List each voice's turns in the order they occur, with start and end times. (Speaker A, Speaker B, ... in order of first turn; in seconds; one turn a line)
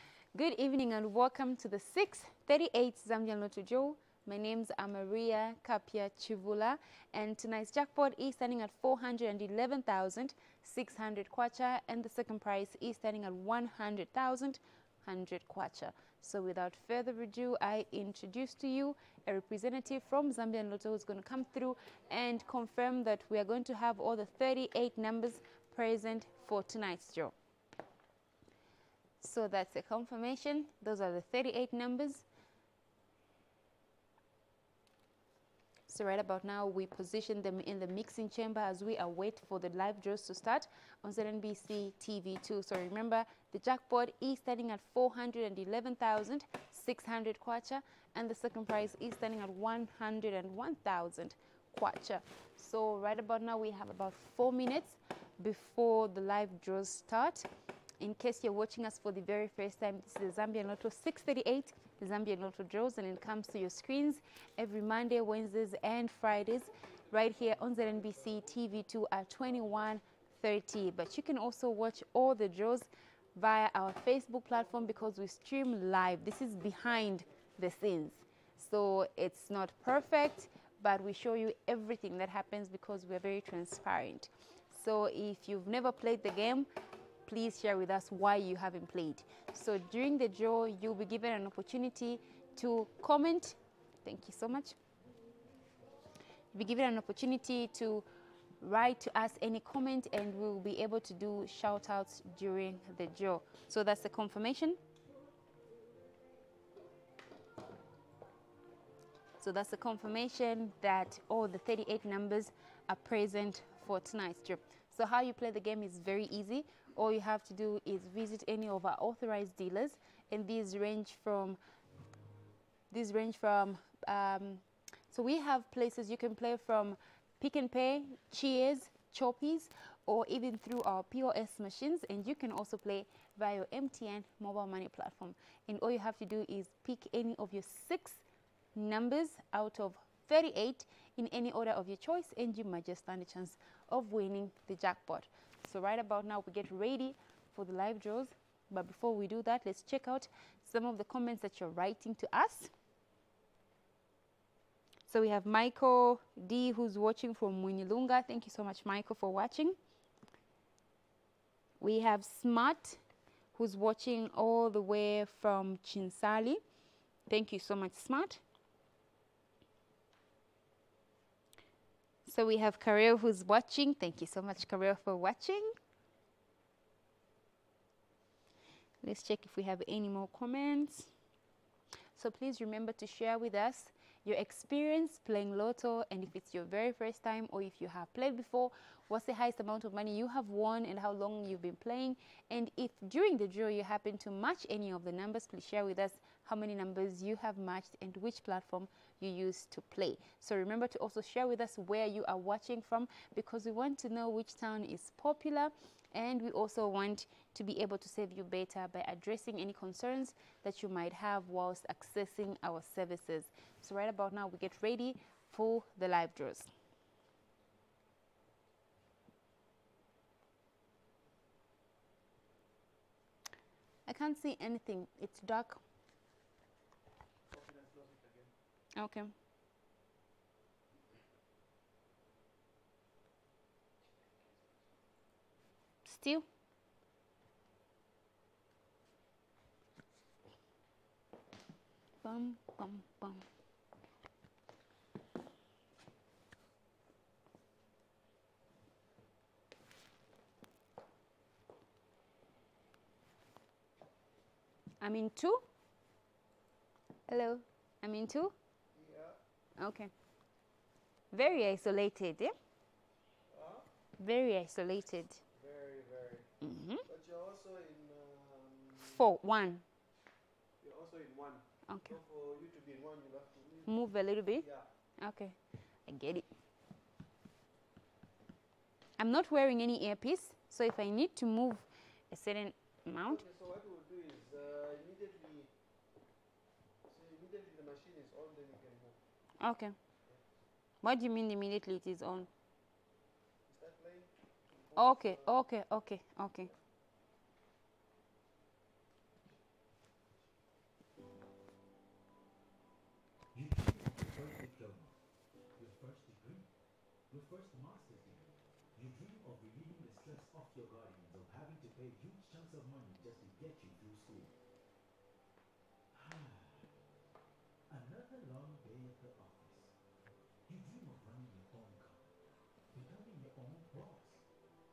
Speaker A: 0.3-27.3
Speaker A: 29.2-32.2
Speaker A: 35.9-57.5
Speaker A: 58.0-86.7
Speaker A: 87.2-94.8
Speaker A: 96.5-98.0
Speaker A: 98.6-104.8
Speaker A: 109.4-121.6
Speaker A: 122.9-138.2
Speaker A: 138.7-152.7
Speaker A: 155.1-159.8
Speaker A: 161.8-163.0
Speaker A: 163.5-166.6
Speaker A: 167.3-168.4
Speaker A: 172.2-175.7
Speaker A: 179.0-181.1
Speaker A: 182.2-216.7
Speaker A: 224.1-225.8
Speaker B: 227.5-228.5
Speaker A: 228.9-229.3
Speaker A: 236.0-236.4
Speaker A: 242.2-243.4
Speaker A: 255.0-255.6
Speaker A: 257.3-258.5
Speaker B: 258.9-259.4
Speaker A: 259.8-260.1
Speaker A: 261.3-262.5
Speaker B: 263.5-263.9
Speaker A: 264.2-265.4
Speaker B: 265.5-269.2
Speaker A: 266.6-267.0
Speaker A: 269.0-269.8
Speaker B: 270.8-273.9
Speaker A: 271.9-272.1
Speaker A: 273.9-274.6
Speaker B: 274.5-274.9
Speaker A: 275.2-276.5
Speaker A: 279.2-283.4
Speaker B: 283.2-285.7
Speaker B: 287.1-289.2
Speaker A: 289.6-289.9
Speaker A: 291.0-292.5
Speaker B: 293.7-295.6
Speaker A: 294.9-296.7
Speaker C: 303.5-305.2
Speaker C: 305.8-306.7
Speaker C: 307.3-314.5
Speaker C: 316.1-316.9
Speaker C: 317.9-319.9
Speaker C: 320.6-322.3
Speaker C: 322.9-324.4